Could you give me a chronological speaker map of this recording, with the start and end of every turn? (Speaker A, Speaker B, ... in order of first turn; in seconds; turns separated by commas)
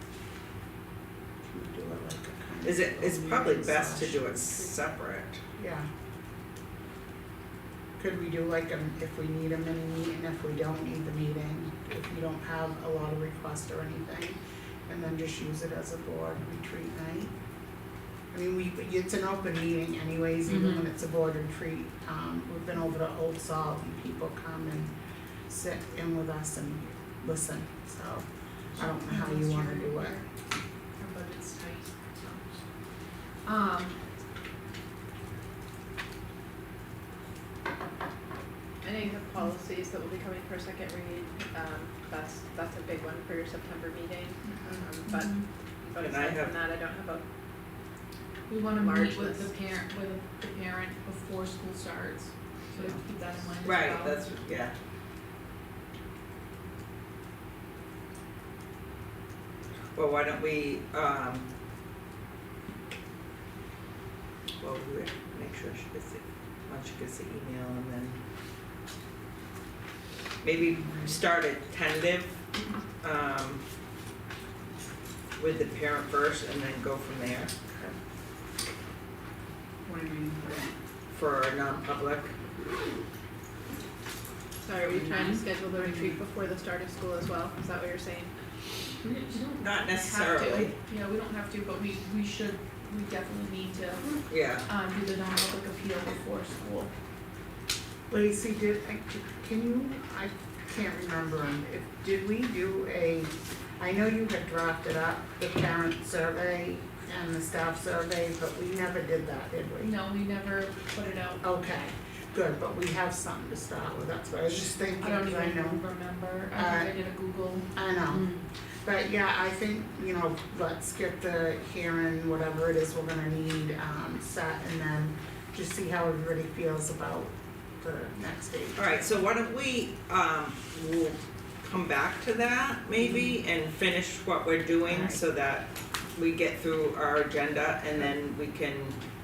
Speaker A: 1.4-4.8, Speaker B: 2.6-5.4, Speaker A: 5.6-5.9, Speaker A: 8.0-17.3, Speaker A: 18.3-24.9, Speaker C: 20.5-20.8, Speaker A: 25.5-30.2, Speaker C: 28.8-30.2, Speaker C: 31.0-32.6, Speaker C: 33.4-34.0, Speaker D: 38.8-47.2, Speaker C: 44.4-45.4, Speaker B: 46.0-46.5, Speaker C: 48.5-54.3, Speaker D: 48.8-49.5, Speaker B: 53.6-54.7, Speaker B: 59.9-61.5, Speaker B: 64.6-68.2, Speaker B: 70.4-72.4, Speaker A: 70.6-71.2, Speaker B: 73.0-73.6, Speaker B: 75.4-77.5, Speaker A: 77.7-78.0, Speaker A: 79.8-80.7, Speaker B: 81.1-82.3, Speaker D: 84.6-88.3, Speaker A: 84.9-86.2, Speaker C: 85.1-85.4, Speaker C: 89.0-96.9, Speaker B: 89.6-90.7, Speaker B: 94.3-94.7, Speaker A: 98.1-109.9, Speaker C: 109.8-111.4, Speaker A: 111.4-115.8, Speaker C: 115.0-118.5, Speaker A: 116.5-117.0, Speaker A: 117.7-129.0, Speaker B: 128.8-139.0, Speaker A: 133.0-133.3, Speaker A: 134.8-135.2